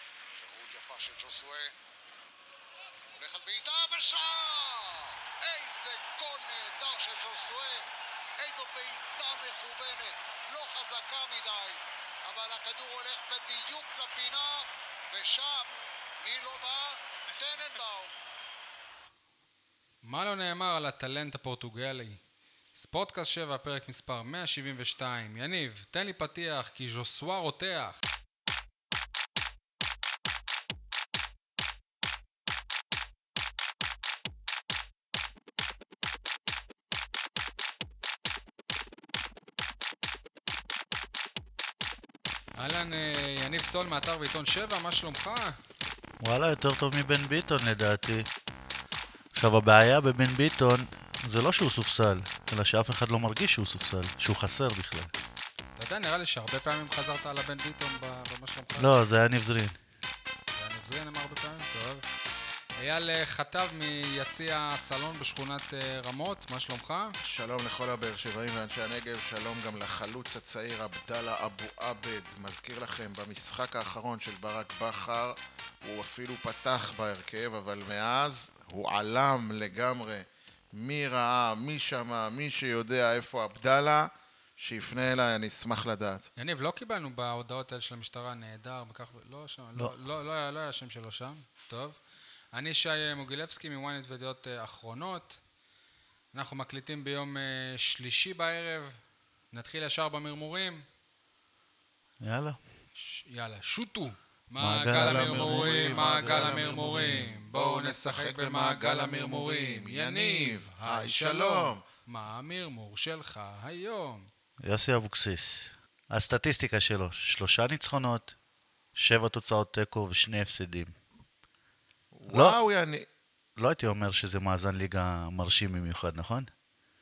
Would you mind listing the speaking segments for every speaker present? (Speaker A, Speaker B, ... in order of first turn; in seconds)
Speaker A: 0.3-1.7, 3.1-18.1
Speaker B: 20.0-22.2, 22.7-28.0, 42.6-45.6, 55.8-59.0, 60.5-62.1, 62.8-67.2, 86.4-92.0, 92.5-95.4, 96.3-99.0, 99.5-100.8, 103.0-114.3
Speaker C: 46.2-48.3, 49.3-55.1, 58.8-59.8, 102.2-102.6, 104.6-106.8, 114.6-118.3, 118.9-120.9, 122.3-122.6, 123.6-126.5
Speaker D: 67.2-86.3, 104.9-111.8, 122.1-123.0